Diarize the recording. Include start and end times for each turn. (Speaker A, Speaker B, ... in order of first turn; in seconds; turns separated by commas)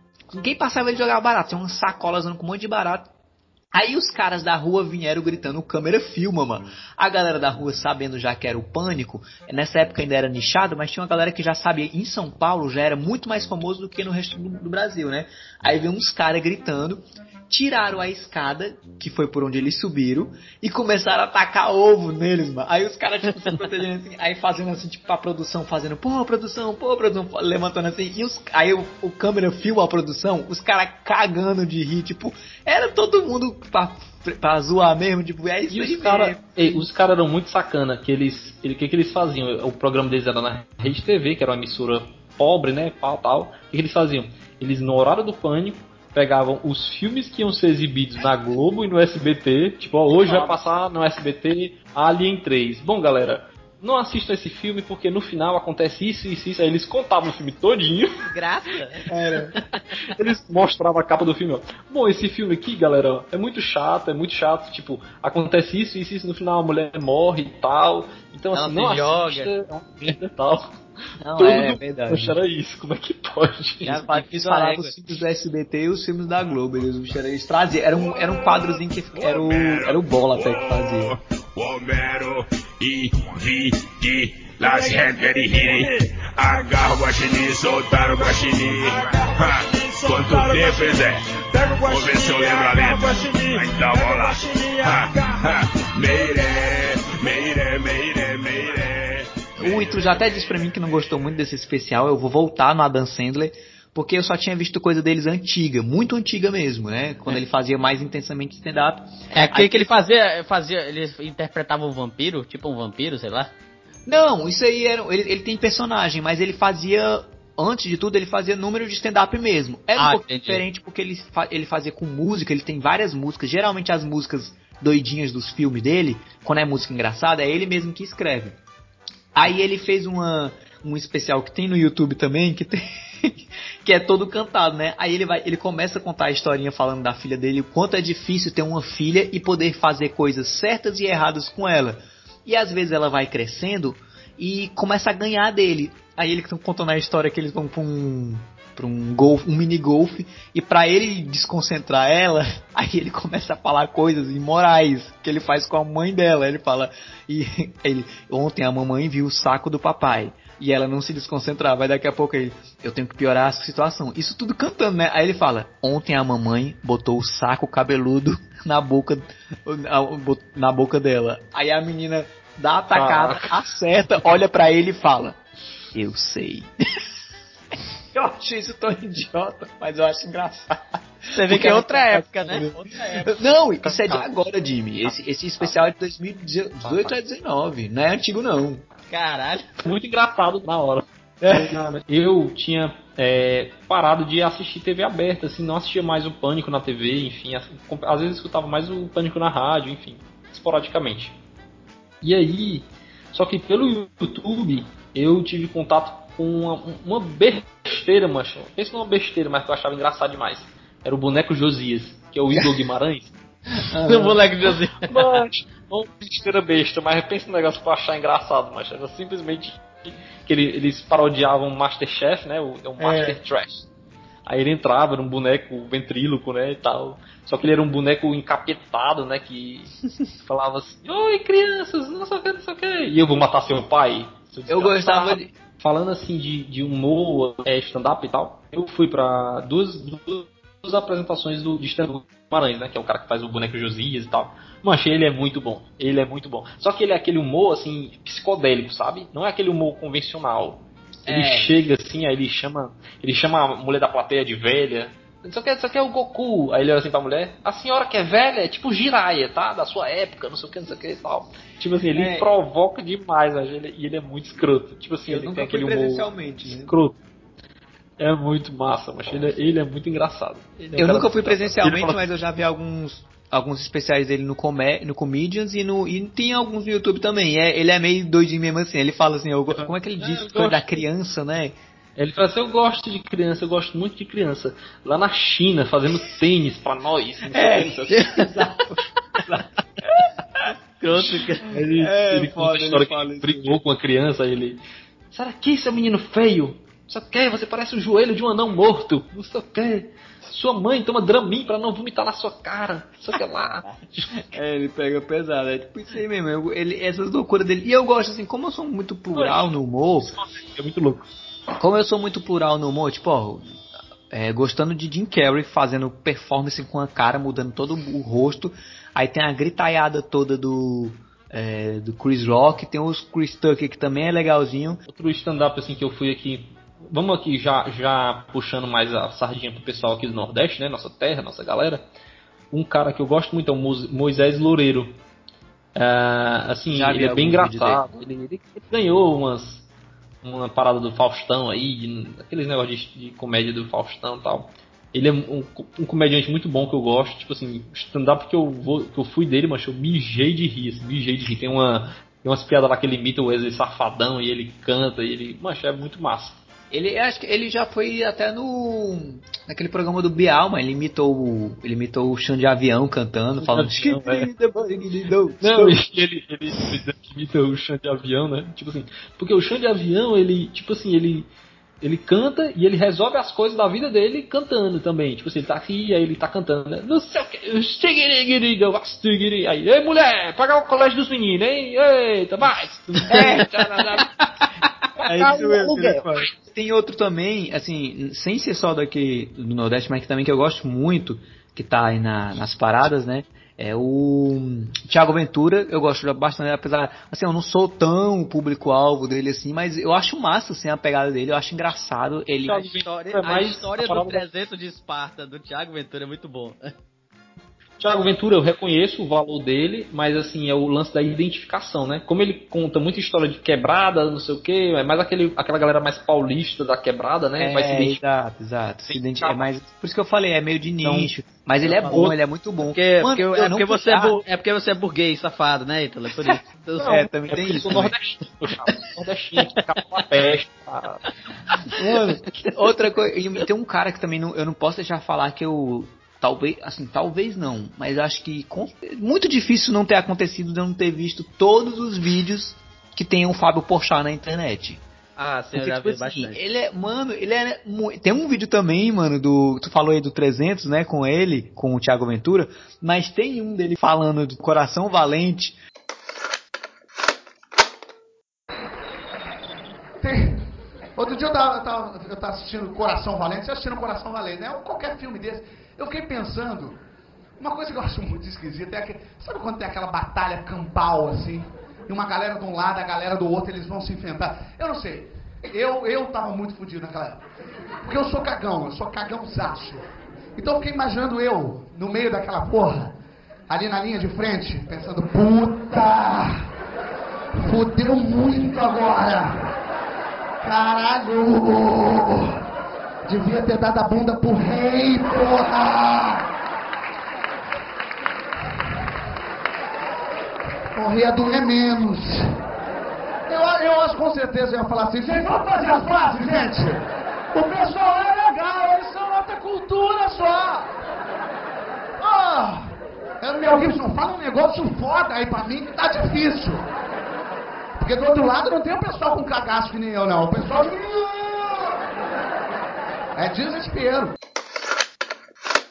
Speaker A: 0.3-3.1, Speaker A: 3.7-36.8, Speaker B: 35.7-58.2, Speaker C: 50.2-50.6, Speaker C: 58.1-59.9, Speaker A: 59.1-59.5, Speaker B: 60.0-70.8, Speaker C: 68.5-69.5, Speaker A: 71.2-72.4, Speaker B: 71.4-74.2, Speaker C: 73.9-74.9, Speaker A: 74.3-81.2, Speaker D: 79.2-100.0, Speaker A: 99.6-109.9, Speaker C: 109.3-113.5, Speaker A: 114.1-128.6, Speaker C: 120.0-120.6, Speaker A: 129.3-175.4, Speaker B: 172.9-173.6, Speaker A: 175.9-176.7, Speaker A: 178.1-188.8, Speaker C: 181.3-183.4, Speaker C: 189.1-189.7, Speaker B: 189.8-201.4, Speaker A: 191.4-191.8, Speaker B: 202.2-213.3, Speaker A: 213.8-214.4, Speaker C: 214.1-215.2, Speaker B: 215.1-223.9, Speaker A: 223.0-223.4, Speaker B: 224.5-229.9, Speaker B: 230.5-267.2, Speaker A: 234.7-235.5, Speaker A: 251.3-251.7, Speaker A: 262.1-262.5, Speaker A: 265.3-266.9, Speaker B: 268.2-272.2, Speaker A: 271.0-281.8, Speaker B: 279.7-280.9, Speaker B: 282.2-288.3, Speaker A: 287.5-290.7, Speaker C: 291.0-291.7, Speaker B: 291.7-304.6, Speaker A: 292.0-293.8, Speaker A: 304.5-310.3, Speaker B: 309.3-311.3, Speaker A: 311.8-313.6, Speaker A: 314.3-325.0, Speaker B: 325.1-332.1, Speaker B: 332.7-335.2, Speaker B: 335.9-339.9, Speaker A: 336.9-338.1, Speaker B: 340.4-356.6, Speaker A: 356.9-366.0, Speaker B: 363.6-364.5, Speaker B: 365.6-371.5, Speaker B: 372.0-384.1, Speaker A: 383.3-384.2, Speaker B: 385.2-386.5, Speaker A: 385.2-402.9, Speaker B: 402.6-404.4, Speaker C: 403.1-406.9, Speaker B: 408.0-418.2, Speaker A: 417.6-424.4, Speaker B: 419.1-419.7, Speaker B: 421.0-421.3, Speaker B: 421.8-422.4, Speaker C: 422.8-427.1, Speaker A: 426.4-428.1, Speaker B: 427.0-431.2, Speaker A: 432.0-445.0, Speaker C: 445.4-446.6, Speaker A: 445.7-455.8, Speaker E: 460.2-460.6, Speaker E: 461.2-467.0, Speaker E: 467.6-477.4, Speaker E: 478.0-480.1, Speaker E: 480.6-483.1, Speaker E: 483.7-486.7, Speaker E: 487.6-489.8, Speaker E: 490.6-492.6, Speaker E: 493.3-496.4, Speaker E: 500.9-502.6, Speaker E: 503.5-510.9, Speaker E: 512.2-516.9, Speaker E: 518.0-522.0, Speaker E: 523.4-524.3